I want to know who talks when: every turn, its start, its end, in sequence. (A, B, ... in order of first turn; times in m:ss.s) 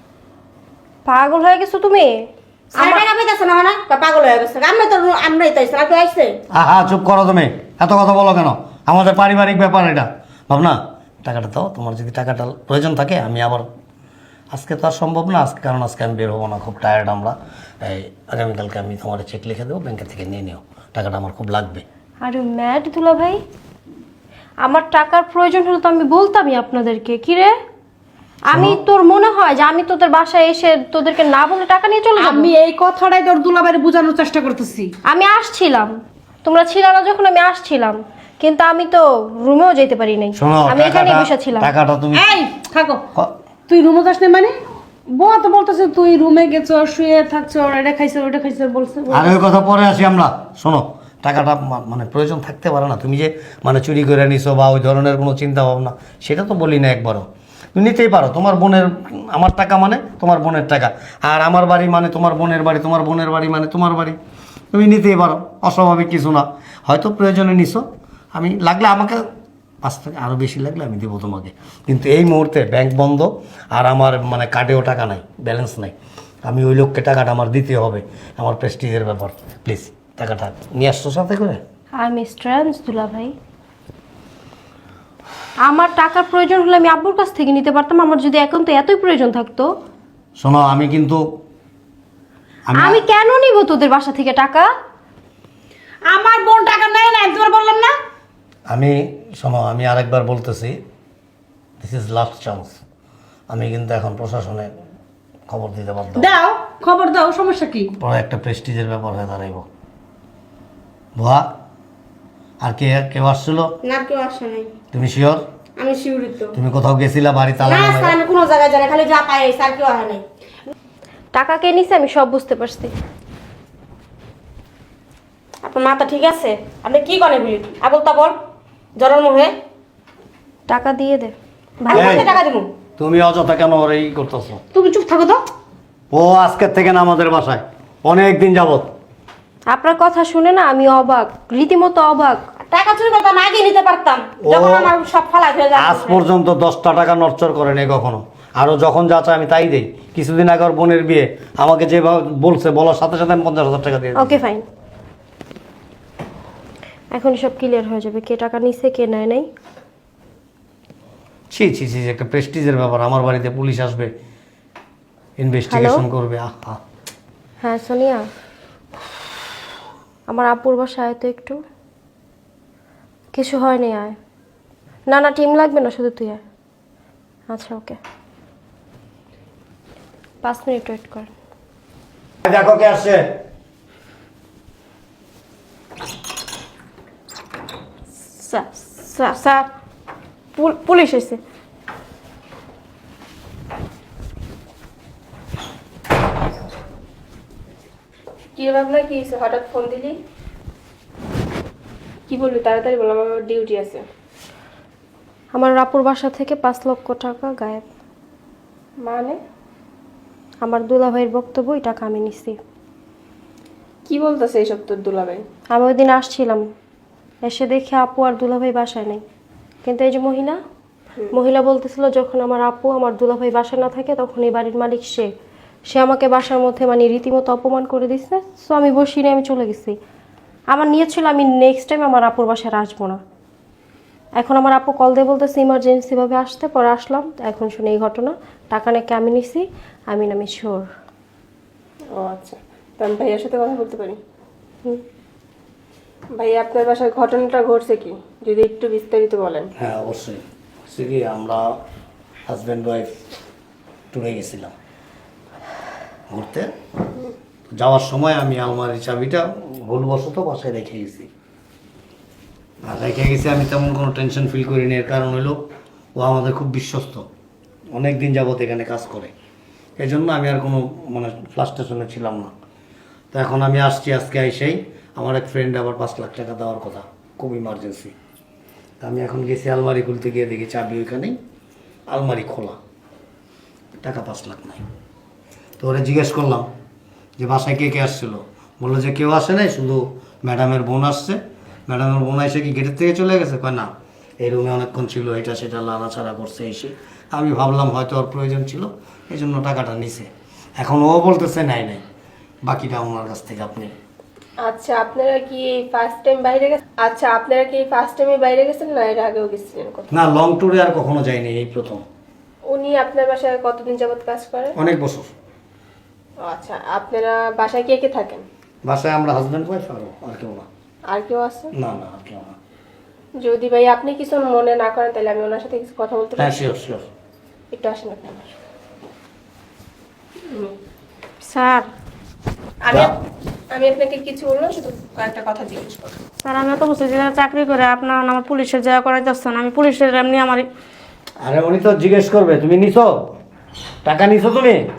0:01.0-0:03.0 A
0:02.8-0:06.4 B
0:06.5-0:13.7 C
0:14.5-0:21.8 C
0:22.2-0:23.4 A
0:24.6-0:27.5 A
0:28.5-0:32.5 A
0:28.5-0:28.8 C
0:32.2-0:34.9 D
0:35.0-0:41.7 A
0:40.4-0:42.3 C
0:42.1-0:43.0 D
0:43.7-0:44.5 D
0:45.1-0:49.4 D
0:49.1-1:04.2 C
1:04.7-1:09.2 C
1:09.8-1:16.0 C
1:16.5-1:21.6 C
1:22.0-1:23.3 A
1:25.6-1:29.7 A
1:30.4-1:31.2 C
1:32.7-1:33.0 C
1:32.8-1:34.7 A
1:36.1-1:37.9 D
1:38.7-1:40.8 C
1:41.8-1:42.8 C
1:43.5-1:44.7 C
1:45.5-1:46.3 C
1:46.2-1:47.9 D
1:48.0-1:49.7 C
1:51.2-1:51.5 C
1:52.6-1:53.7 C
1:53.8-1:54.7 B
1:54.9-1:55.4 C
1:55.8-1:56.6 B
1:56.5-1:58.2 C
1:57.6-2:00.2 B
2:01.3-2:02.9 A
2:05.6-2:08.4 B
2:09.0-2:09.5 B
2:10.7-2:12.3 A
2:11.9-2:12.7 B
2:11.9-2:12.3 C
2:13.0-2:14.6 C
2:14.7-2:15.4 D
2:16.1-2:18.9 C
2:19.7-2:22.4 A
2:22.7-2:26.2 B
2:24.4-2:24.9 C
2:25.8-2:34.4 C
2:34.2-2:34.7 A
2:37.1-2:39.5 A
2:41.5-2:44.1 C
2:45.4-2:46.8 C
2:45.7-2:46.0 A
2:47.6-2:48.3 A
2:50.3-2:51.6 A
2:53.3-2:54.2 A
2:55.1-2:56.4 A
2:57.5-2:58.0 A
3:00.4-3:01.3 A
3:02.4-3:03.2 C
3:08.4-3:09.7 B
3:10.6-3:11.4 B
3:18.6-3:20.2 E
3:22.3-3:24.0 E
3:25.5-3:27.8 A
3:29.0-3:29.4 E
3:30.6-3:32.6 A
3:34.1-3:35.4 E
3:35.7-3:36.7 A
3:37.4-3:39.2 A
3:39.8-3:40.6 A
3:41.3-3:45.3 A
3:45.9-3:50.0 A
3:50.7-3:53.2 A
3:54.4-4:00.9 A
4:02.1-4:04.2 E
4:06.4-4:09.7 E
4:09.8-4:11.6 C
4:12.5-4:13.1 C
4:14.1-4:14.7 C
4:16.3-4:16.7 C
4:17.7-4:21.3 C
4:22.9-4:25.6 C
4:26.2-4:27.2 C
4:27.9-4:29.3 C
4:30.0-4:32.5 C
4:33.3-4:38.1 C
4:39.0-4:41.4 C
4:42.1-4:42.8 C
4:44.0-4:44.8 C
4:45.8-4:46.7 C
4:47.4-5:02.0 C
5:02.7-5:03.9 C
5:04.6-5:10.1 E
5:10.1-5:12.0 C
5:12.7-5:14.7 E
5:14.8-5:15.3 C
5:16.4-5:18.4 E
5:18.9-5:20.7 C
5:21.1-5:21.7 E
5:21.8-5:22.6 C
5:23.4-5:26.6 E
5:26.4-5:27.0 C
5:27.7-5:28.5 E
5:31.4-5:31.9 B
5:32.8-5:33.1 E
5:33.7-5:36.1 E
5:36.4-5:40.7 B
5:41.4-5:43.3 C
5:44.0-5:44.8 C